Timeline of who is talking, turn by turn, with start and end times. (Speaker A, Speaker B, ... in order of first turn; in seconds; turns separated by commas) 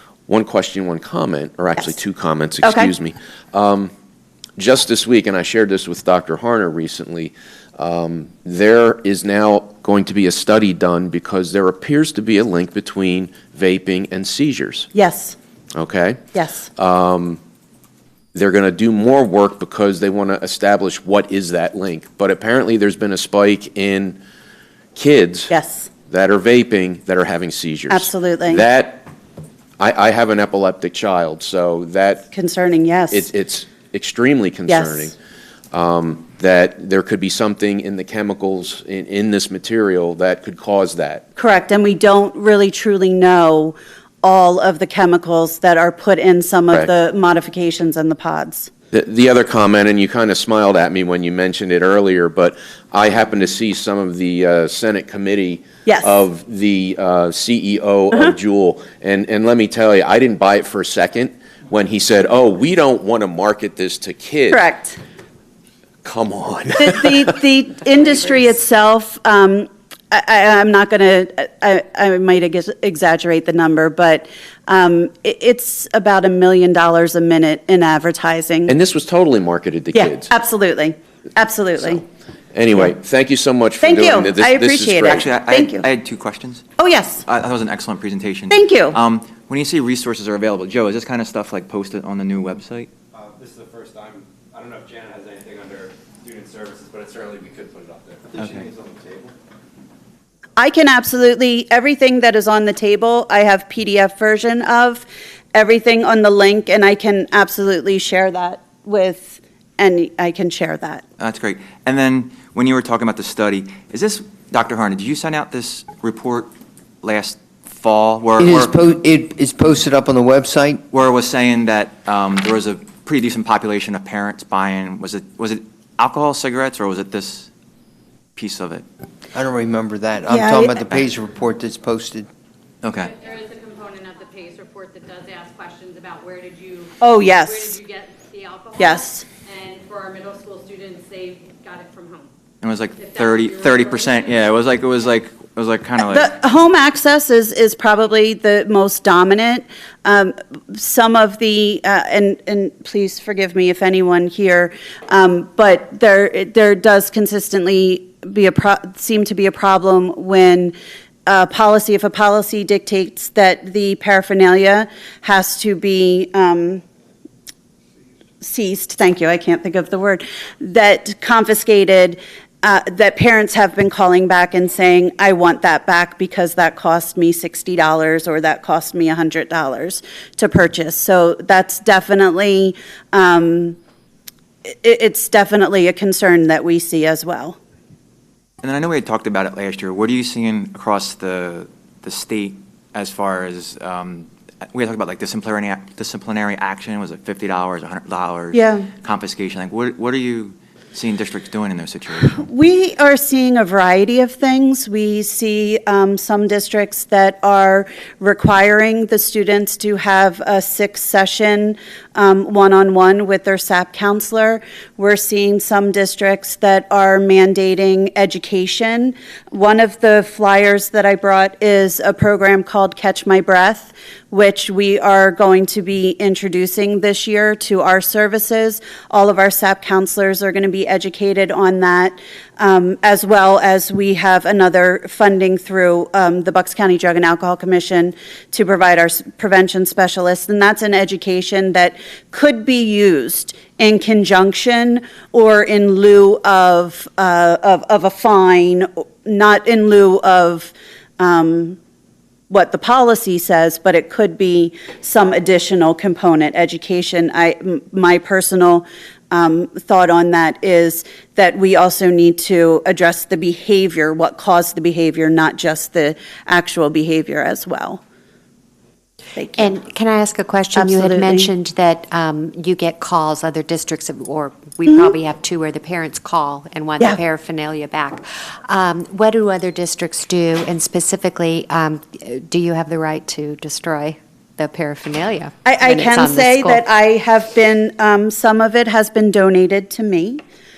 Speaker A: 0.3-3.9, Speaker B: 2.6-2.9, Speaker A: 4.6-14.9, Speaker B: 14.9-15.4, Speaker A: 15.7-17.4, Speaker B: 16.3-16.7, Speaker A: 18.3-24.2, Speaker A: 24.9-25.5, Speaker B: 25.5-25.9, Speaker A: 26.1-29.1, Speaker B: 27.9-28.6, Speaker A: 29.8-32.3, Speaker B: 32.3-33.3, Speaker A: 33.1-35.1, Speaker B: 34.7-35.1, Speaker A: 35.7-41.2, Speaker B: 41.4-48.7, Speaker A: 48.9-64.6, Speaker B: 55.9-56.2, Speaker B: 64.5-65.0, Speaker A: 66.0-67.3, Speaker B: 66.8-78.7, Speaker A: 78.7-80.3, Speaker B: 79.9-82.0, Speaker A: 82.5-85.3, Speaker B: 83.8-85.8, Speaker C: 85.2-86.6, Speaker B: 86.8-87.2, Speaker C: 87.2-92.9, Speaker B: 88.5-89.0, Speaker D: 93.1-99.3, Speaker B: 100.6-111.0, Speaker C: 111.2-118.7, Speaker E: 118.4-120.8, Speaker C: 120.9-127.5, Speaker C: 128.3-128.8, Speaker E: 129.3-132.3, Speaker B: 130.3-130.8, Speaker C: 132.8-133.1, Speaker F: 133.0-142.3, Speaker B: 137.0-137.8, Speaker B: 138.8-139.2, Speaker C: 142.6-146.3, Speaker F: 143.0-144.6, Speaker B: 146.0-160.7, Speaker B: 161.2-166.8, Speaker B: 168.4-183.8, Speaker B: 184.7-187.6, Speaker C: 188.6-202.4, Speaker B: 198.5-198.9, Speaker B: 202.3-251.8, Speaker B: 252.5-268.0, Speaker B: 269.4-269.7, Speaker G: 269.6-286.8, Speaker B: 270.7-271.5, Speaker B: 285.6-290.4